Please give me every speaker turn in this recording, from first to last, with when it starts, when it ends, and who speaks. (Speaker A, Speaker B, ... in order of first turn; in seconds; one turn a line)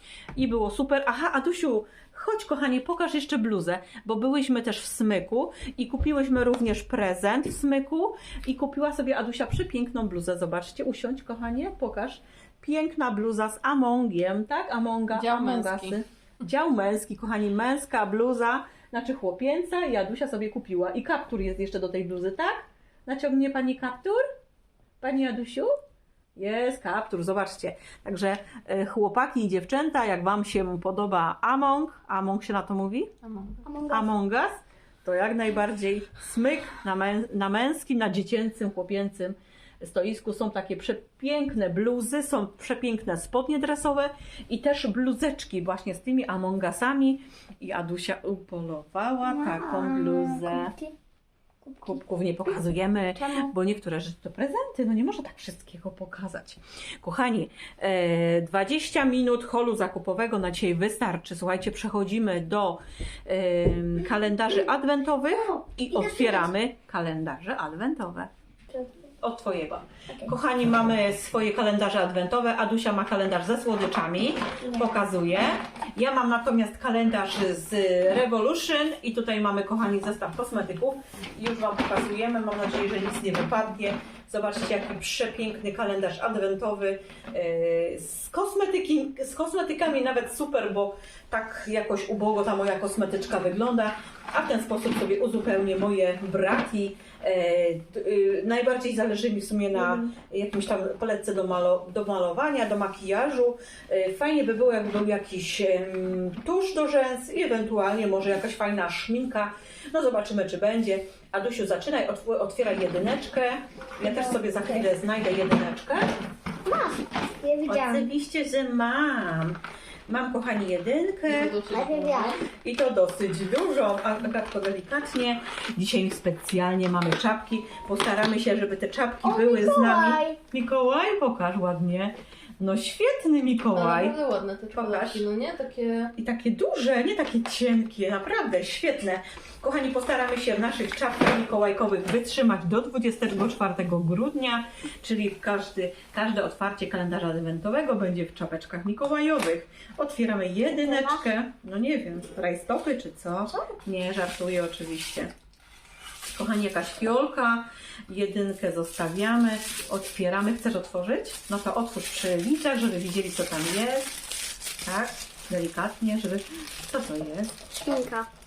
Speaker A: 0.3-24.2
Speaker B: 15.1-16.0
Speaker A: 25.0-25.7
Speaker A: 26.4-33.1
Speaker B: 33.2-33.6
Speaker C: 33.6-34.1
Speaker A: 33.9-50.7
Speaker C: 49.3-50.9
Speaker C: 51.6-52.6
Speaker A: 51.8-68.3
Speaker C: 53.2-53.5
Speaker C: 65.4-66.5
Speaker C: 68.7-69.0
Speaker A: 69.2-116.1
Speaker C: 114.0-114.7
Speaker C: 116.6-118.1
Speaker A: 117.7-121.6
Speaker B: 121.3-122.4
Speaker C: 121.6-122.4
Speaker A: 122.6-134.1
Speaker C: 129.2-130.4
Speaker B: 133.7-136.1
Speaker A: 134.7-135.2
Speaker A: 136.2-155.3
Speaker C: 150.9-151.2
Speaker A: 156.3-167.6
Speaker C: 167.8-168.3